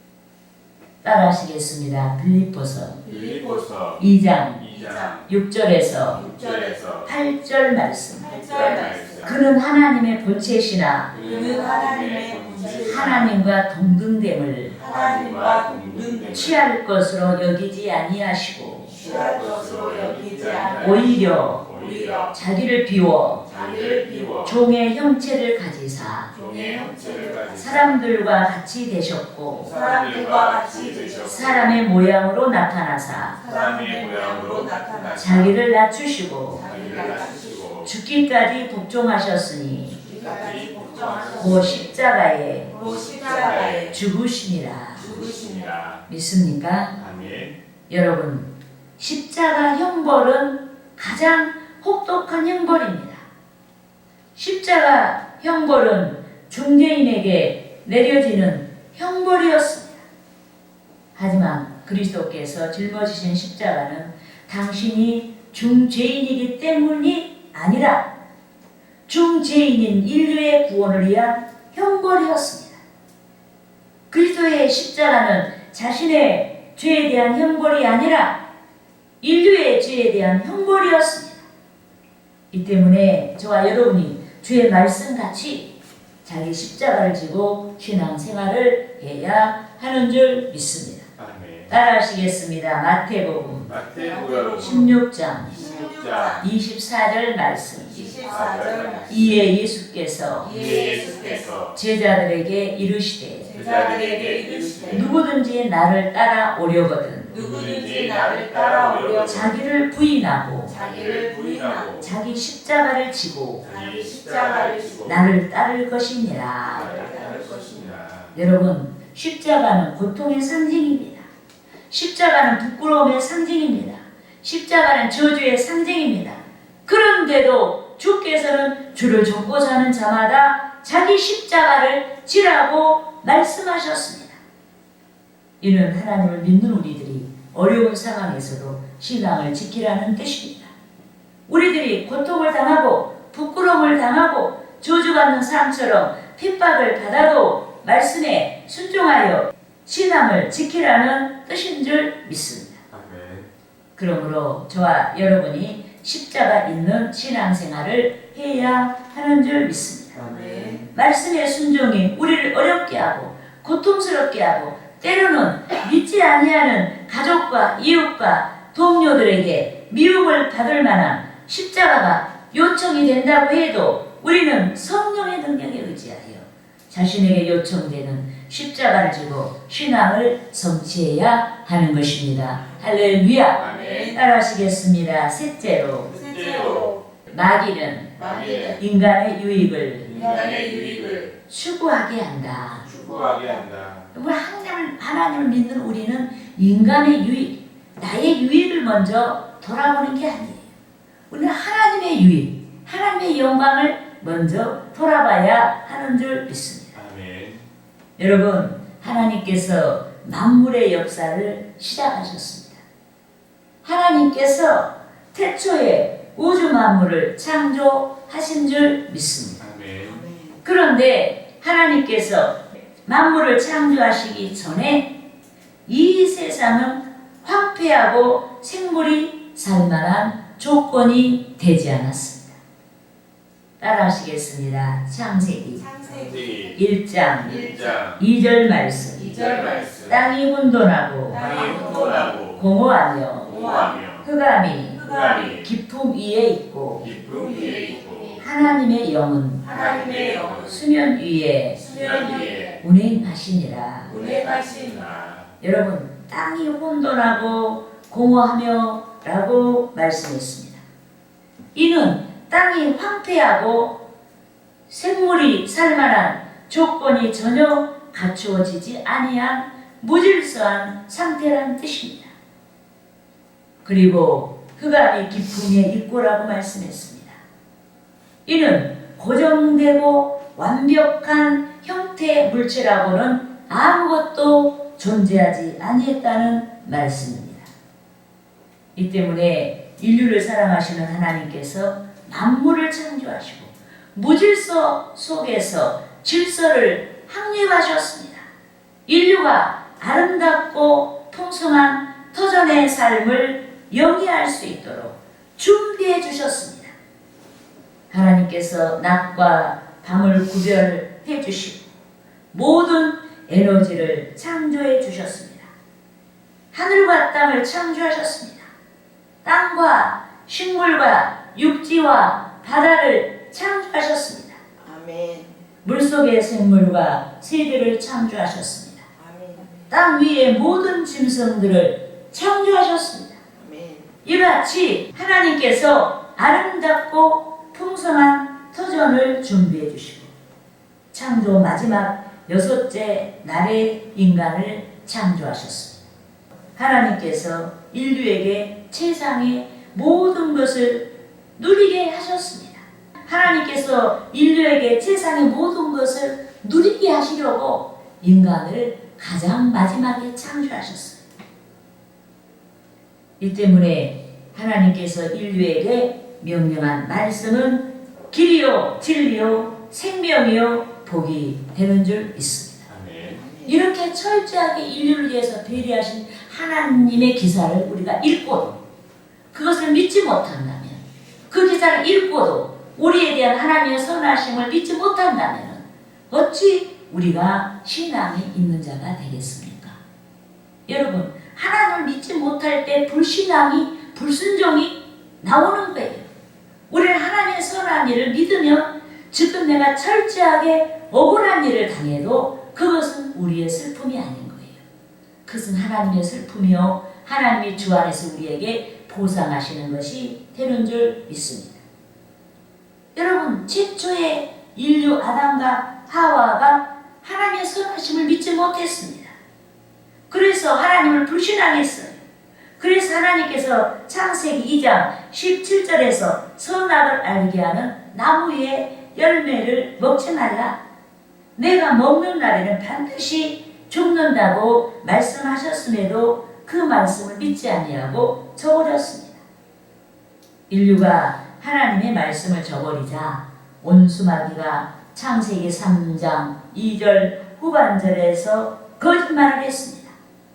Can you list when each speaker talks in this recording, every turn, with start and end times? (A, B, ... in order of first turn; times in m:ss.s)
0:01.0-0:03.0 A
0:03.1-0:04.0 B
0:03.1-0:03.6 C
0:04.0-0:04.7 A
0:04.6-0:05.3 B
0:04.7-0:05.1 C
0:05.3-0:06.2 A
0:06.1-0:07.1 B
0:06.2-0:06.8 C
0:07.0-0:11.2 A
0:08.2-0:09.3 C
0:08.2-0:09.4 B
0:11.1-0:13.4 B
0:11.2-0:13.3 C
0:12.8-0:14.8 A
0:14.7-0:16.6 B
0:14.8-0:16.5 C
0:16.3-0:19.0 A
0:19.0-0:21.1 C
0:19.0-0:22.3 B
0:20.8-0:21.7 A
0:21.7-0:22.3 C
0:22.3-0:23.5 A
0:23.4-0:24.6 B
0:23.5-0:24.4 C
0:24.4-0:26.3 A
0:26.3-0:28.0 B
0:26.4-0:27.6 C
0:27.6-0:29.8 A
0:29.6-0:31.7 B
0:29.7-0:31.5 C
0:31.2-0:33.4 A
0:33.4-0:35.3 C
0:33.4-0:35.6 B
0:35.2-0:36.7 A
0:36.6-0:37.5 C
0:36.6-0:37.9 B
0:37.8-0:40.0 A
0:40.0-0:41.8 C
0:40.4-0:41.9 B
0:41.4-0:42.7 A
0:42.7-0:43.9 C
0:42.8-0:44.0 B
0:43.7-0:45.1 A
0:45.0-0:46.0 B
0:45.0-0:45.7 C
0:46.1-0:46.9 A
0:47.0-0:47.6 B
0:47.9-0:53.2 A
0:54.4-1:00.0 A
1:01.2-1:08.1 A
1:09.1-1:12.8 A
1:14.1-1:18.4 A
1:19.2-1:21.4 A
1:22.5-1:25.7 A
1:26.2-1:31.1 A
1:31.2-1:31.7 B
1:31.7-1:33.8 A
1:33.7-1:34.9 B
1:34.1-1:34.8 C
1:34.6-1:35.6 A
1:35.4-1:36.4 B
1:35.5-1:36.4 C
1:36.4-1:38.2 A
1:37.9-1:39.2 C
1:38.2-1:39.4 B
1:39.1-1:40.8 A
1:40.4-1:41.8 B
1:40.4-1:41.5 C
1:41.7-1:43.5 A
1:43.5-1:45.1 C
1:43.5-1:45.2 B
1:44.9-1:47.4 A
1:47.3-1:49.6 B
1:47.3-1:49.4 C
1:49.2-1:50.8 A
1:50.7-1:51.9 C
1:50.7-1:52.1 B
1:52.0-1:53.7 A
1:53.6-1:55.3 B
1:53.7-1:55.0 C
1:55.0-1:57.1 A
1:56.6-1:58.4 B
1:56.7-1:57.8 C
1:58.3-2:01.3 A
2:01.9-2:14.4 A
2:15.6-2:20.7 A
2:21.5-2:32.8 A
2:32.9-2:33.5 B
2:34.0-2:40.3 A
2:40.2-2:40.9 B
2:40.3-2:40.8 C
2:40.9-3:06.2 A
3:03.6-3:04.2 B
3:03.7-3:04.1 C
3:06.1-3:07.0 B
3:06.1-3:06.9 C
3:07.3-3:10.3 A
3:08.2-3:08.8 B
3:08.3-3:08.7 C
3:10.0-3:11.3 B
3:10.2-3:11.2 C
3:11.5-3:12.9 A
3:12.9-3:14.1 B
3:14.1-3:20.7 A
3:21.3-3:27.0 A
3:27.0-3:27.6 B
3:28.2-3:32.8 A
3:33.8-3:39.6 A
3:39.6-3:40.2 B
3:40.1-3:40.6 C
3:40.6-3:45.2 A
3:45.9-3:52.6 A
3:53.8-3:55.9 A
3:55.8-3:56.6 C
3:56.1-3:56.8 B
3:56.8-3:59.5 A
3:57.4-3:58.2 B
3:59.2-4:00.3 B
3:59.3-3:59.9 C
4:00.1-4:01.7 A
4:01.3-4:02.6 B
4:01.4-4:02.3 C
4:02.5-4:03.6 A
4:03.4-4:04.3 B
4:03.5-4:04.0 C
4:04.2-4:07.1 A
4:05.0-4:05.7 B
4:05.0-4:05.4 C
4:07.0-4:08.4 B
4:07.3-4:08.2 C
4:08.4-4:09.7 A
4:09.6-4:10.7 C
4:09.6-4:10.8 B
4:10.5-4:12.0 A
4:11.8-4:12.7 C
4:11.9-4:12.8 B
4:12.8-4:14.2 A
4:14.1-4:15.5 B
4:14.1-4:15.0 C
4:15.6-4:20.8 A
4:21.7-4:24.0 A
4:24.9-4:32.3 A
4:33.8-4:37.4 A
4:38.5-4:47.7 A
4:49.0-4:58.5 A
4:59.1-5:07.0 A
5:08.1-5:11.9 A
5:12.5-5:15.7 A
5:16.7-5:18.7 A
5:19.4-5:24.6 A
5:24.8-5:25.6 C
5:25.8-5:29.0 A
5:29.2-5:29.9 C
5:29.9-5:33.4 A
5:33.6-5:34.2 C
5:34.2-5:40.3 A
5:41.1-5:46.0 A
5:46.8-6:01.2 A
6:03.4-6:12.9 A
6:12.9-6:13.4 B
6:13.3-6:13.8 C
6:13.6-6:18.8 A
6:19.5-6:30.0 A
6:30.9-6:36.3 A
6:36.9-6:44.8 A
6:45.4-6:51.8 A
6:53.2-6:59.4 A
7:00.3-7:02.2 A
7:02.8-7:10.8 A
7:11.6-7:19.4 A
7:20.7-7:30.2 A